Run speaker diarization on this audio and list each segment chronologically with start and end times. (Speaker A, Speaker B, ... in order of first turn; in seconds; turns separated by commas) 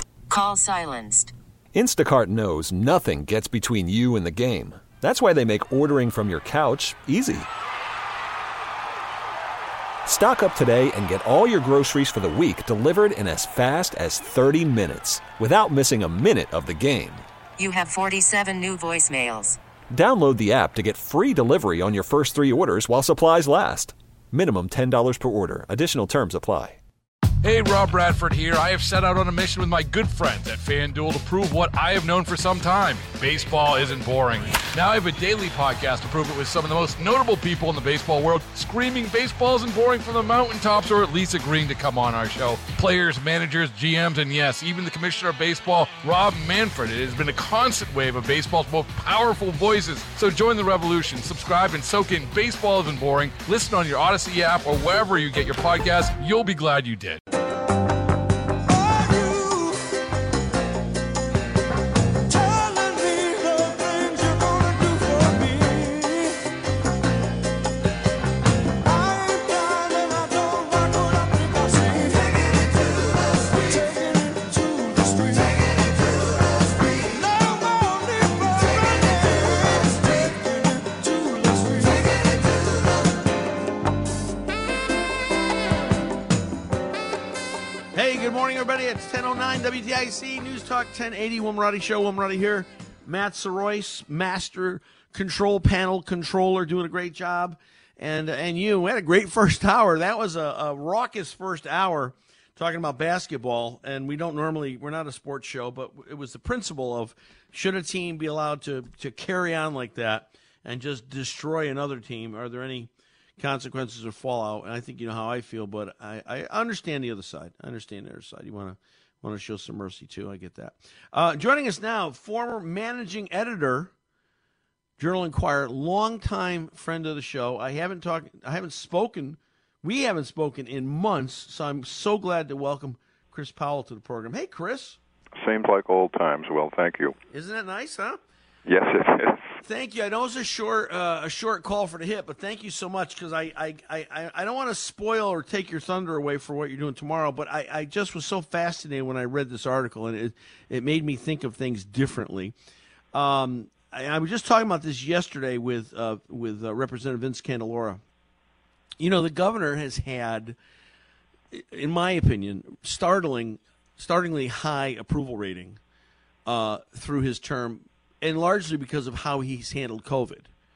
Speaker A: 0.3-1.3, Speaker B: 1.7-7.5, Speaker B: 10.1-17.2, Speaker A: 17.6-19.6, Speaker B: 19.9-26.8, Speaker C: 27.4-57.2, Speaker D: 62.7-65.6, Speaker D: 68.9-71.0, Speaker D: 71.5-71.8, Speaker D: 73.9-74.8, Speaker D: 77.1-79.9, Speaker D: 80.8-81.6, Speaker D: 87.9-123.9, Speaker D: 125.0-135.0, Speaker E: 135.4-137.2, Speaker D: 137.3-138.2, Speaker E: 138.7-139.4, Speaker D: 139.6-152.5, Speaker D: 153.1-158.0, Speaker D: 159.0-160.6, Speaker D: 161.5-165.8, Speaker D: 166.4-170.5